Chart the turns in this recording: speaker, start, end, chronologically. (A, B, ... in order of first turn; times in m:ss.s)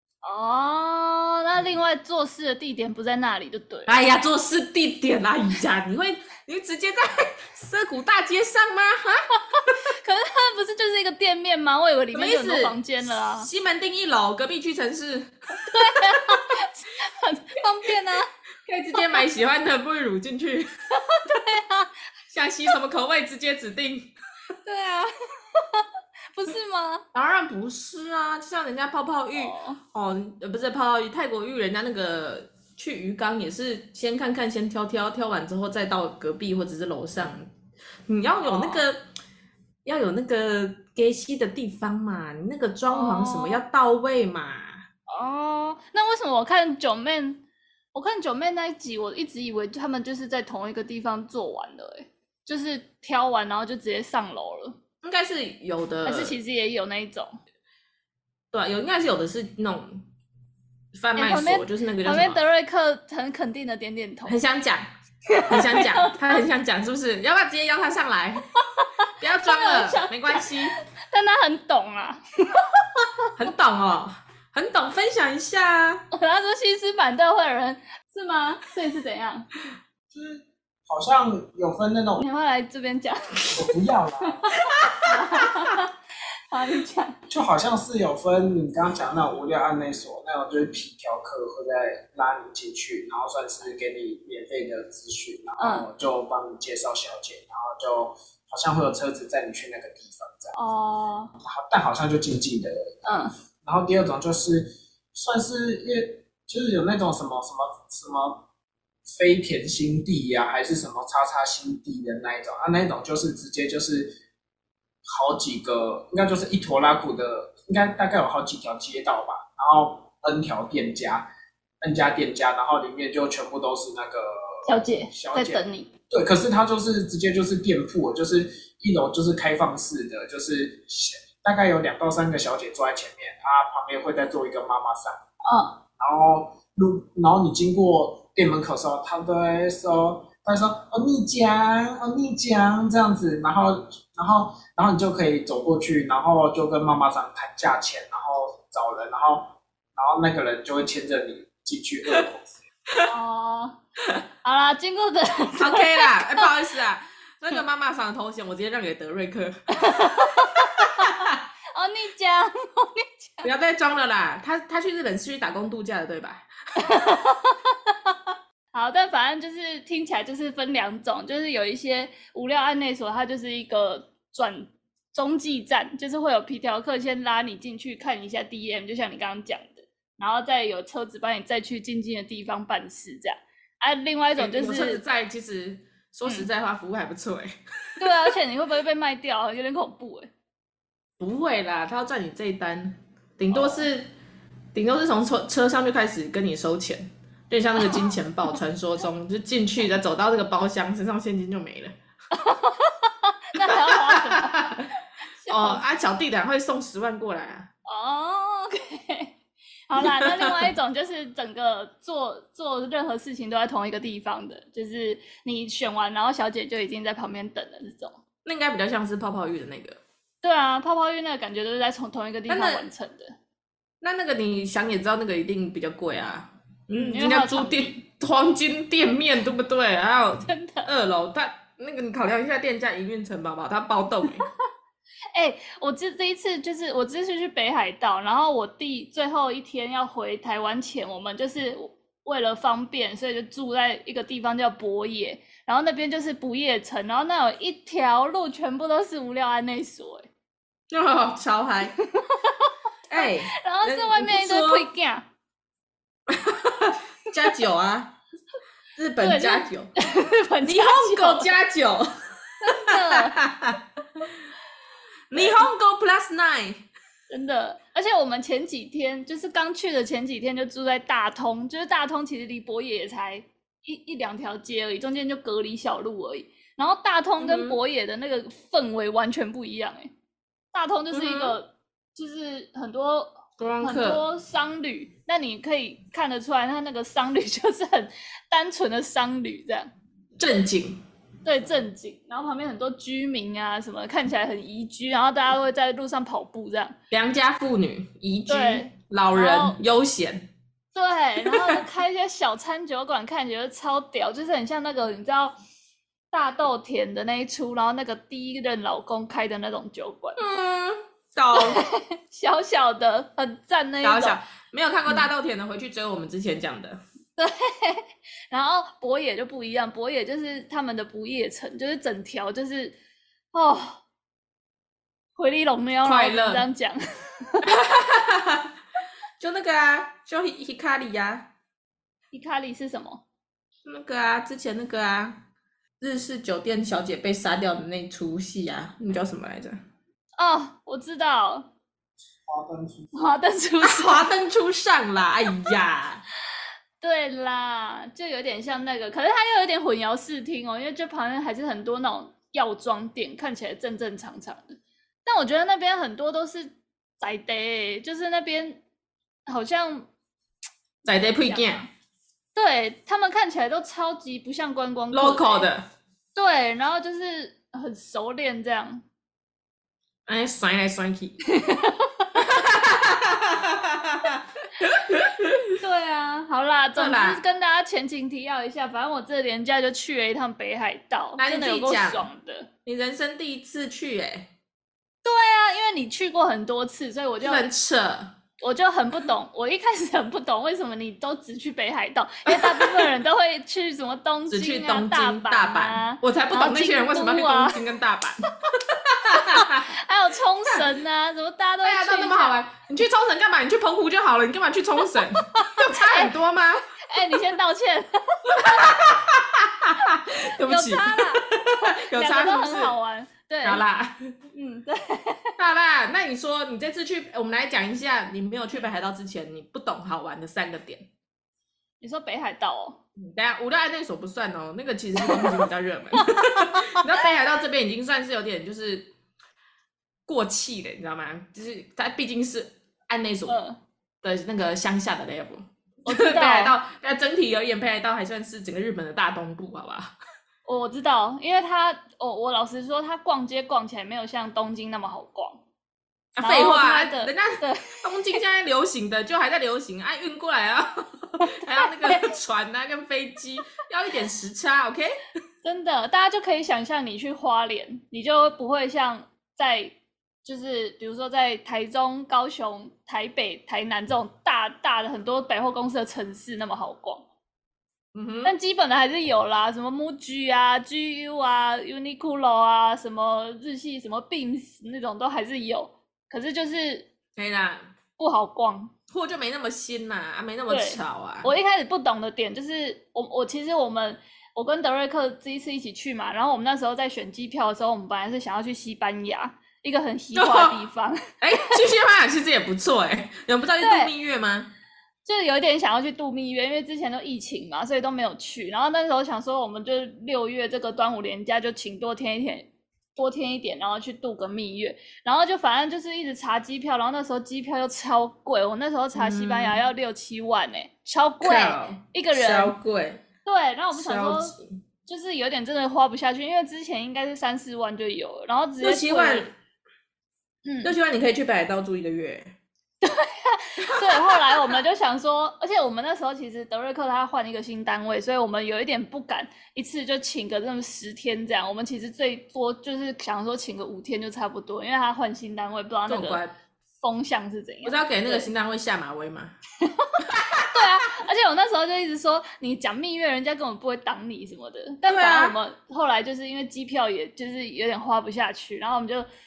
0:00.2-0:03.9 A
0:03.9-0:09.7 B
0:09.6-0:13.5 A
0:12.1-0:16.4 B
0:15.6-0:18.3 A
0:18.6-0:20.7 B
0:19.0-0:19.2 A
0:20.9-0:22.0 A
0:22.3-0:24.1 B
0:24.6-0:27.0 A
0:27.1-0:37.5 B
0:29.3-0:29.8 A
0:38.1-0:39.0 B
0:38.4-0:38.8 A
0:39.8-0:44.8 B
0:42.9-0:43.6 A
0:45.1-0:47.4 A
0:47.9-0:54.8 A
0:55.0-0:56.4 B
0:56.0-0:57.3 A
0:58.5-1:00.0 B
1:00.9-1:02.4 B
1:01.2-1:04.4 A
1:04.3-1:04.9 B
1:05.3-1:06.4 A
1:05.4-1:08.4 B
1:08.8-1:13.3 A
1:09.2-1:10.8 B
1:13.4-1:16.0 B
1:16.1-1:19.5 A
1:20.1-1:22.2 C
1:22.2-1:23.5 A
1:23.5-1:24.4 C
1:24.2-1:25.9 A
1:24.8-1:25.5 B
1:26.5-1:27.2 A
1:27.3-1:40.6 C
1:35.6-1:35.8 A
1:40.6-1:41.3 A
1:41.4-1:42.9 C
1:43.0-1:43.3 A
1:43.6-1:48.4 C
1:49.0-1:54.2 C
1:55.1-2:01.3 C
2:01.8-2:15.2 C
2:04.6-2:05.9 A
2:15.4-2:15.8 A
2:16.0-2:32.6 C
2:33.0-2:33.8 A
2:34.4-2:36.5 A
2:35.6-2:39.6 B
2:39.7-2:41.2 A
2:40.8-2:41.4 B
2:41.7-2:43.5 A
2:43.4-2:46.4 B
2:46.8-2:48.2 A
2:48.7-3:05.0 A
3:04.4-3:08.3 B
3:08.0-3:10.3 A
3:11.2-3:14.1 B
3:13.5-3:13.8 A
3:14.7-3:21.9 B
3:22.3-3:24.7 A
3:23.7-3:24.9 B
3:25.4-3:25.8 A
3:25.5-3:27.7 B
3:27.9-3:29.4 A
3:29.9-3:38.2 A
3:30.0-3:30.7 B
3:38.4-3:40.0 B
3:40.4-3:43.3 A
3:42.5-3:42.8 B
3:44.0-3:54.5 B
3:47.0-3:48.0 A
3:50.4-3:50.9 A
3:55.3-4:10.3 A
4:10.9-4:12.0 B
4:12.0-4:15.3 A
4:13.1-4:14.9 B
4:16.3-4:18.1 B
4:19.0-4:19.9 B
4:19.2-4:21.5 A
4:20.6-4:22.1 B
4:22.6-4:23.4 A
4:22.7-4:23.8 B
4:25.3-4:26.8 B
4:25.3-4:25.7 A
4:27.3-4:40.1 A
4:37.4-4:37.8 B
4:40.7-4:49.9 A
4:41.1-4:41.6 B
4:43.6-4:44.2 B
4:50.4-4:51.0 B
4:51.4-4:56.9 A
4:57.1-5:00.5 B
4:58.5-4:59.8 A
5:00.9-5:05.6 A
5:01.5-5:01.8 B
5:06.3-5:10.4 A
5:10.4-5:11.8 B
5:11.5-5:14.4 A
5:14.0-5:17.0 B
5:17.4-5:23.0 A
5:23.5-5:24.0 A
5:25.4-5:27.8 A
5:26.0-5:26.6 B
5:27.6-5:28.7 B
5:29.4-5:31.5 B
5:32.3-5:33.2 A
5:33.8-5:35.4 B
5:36.0-5:39.8 B
5:40.4-5:41.7 A
5:42.5-5:43.3 C
5:43.1-5:44.3 A
5:43.8-5:46.2 B
5:47.0-5:58.8 A
5:59.5-6:00.1 A
6:01.0-6:01.9 B
6:01.4-6:01.9 A
6:02.5-6:05.7 A
6:05.1-6:05.8 B
6:06.3-6:09.0 A
6:10.3-6:11.4 B
6:11.5-6:12.5 A
6:12.4-6:15.7 B
6:15.8-6:22.7 A
6:17.0-6:17.4 B
6:21.4-6:22.3 B
6:22.8-6:24.5 B
6:25.2-6:27.6 A
6:27.4-6:28.3 B
6:28.6-6:37.8 A
6:32.5-6:33.1 B
6:34.5-6:39.9 B
6:39.3-6:42.5 A
6:41.8-6:46.9 B
6:45.6-6:46.3 A
6:47.0-6:48.9 A
6:48.5-6:52.9 B
6:50.6-6:53.8 A
6:53.6-6:54.4 B
6:54.5-6:55.5 A
6:55.6-7:01.0 B
7:02.0-7:03.0 A
7:03.2-7:09.1 B
7:05.2-7:05.6 A
7:06.2-7:07.0 A
7:10.3-7:13.6 B
7:13.5-7:13.8 A
7:14.2-7:20.1 B
7:16.0-7:16.7 A
7:20.6-7:25.6 A
7:26.4-7:35.2 B
7:26.4-7:28.4 A
7:31.4-7:32.3 A
7:35.6-7:47.2 A
7:48.1-7:48.5 B
7:48.4-7:57.1 A
7:57.4-7:57.9 B
7:58.2-7:58.9 A
7:59.1-8:01.5 B
8:00.7-8:11.8 A
8:10.3-8:10.8 B
8:11.4-8:14.7 B
8:13.8-8:14.1 A
8:15.2-8:32.8 A
8:29.1-8:29.8 B
8:31.4-8:33.2 B
8:33.4-8:34.5 A
8:33.9-8:34.8 B
8:35.0-8:39.5 A
8:38.8-8:39.5 B
8:40.6-8:40.9 A
8:40.8-8:42.5 B
8:43.0-8:56.4 A
8:43.9-8:44.7 B
8:56.1-8:56.5 B
8:57.0-8:58.5 A
8:57.8-8:59.6 B
8:59.8-9:09.3 A
9:00.2-9:00.8 B
9:05.0-9:05.6 B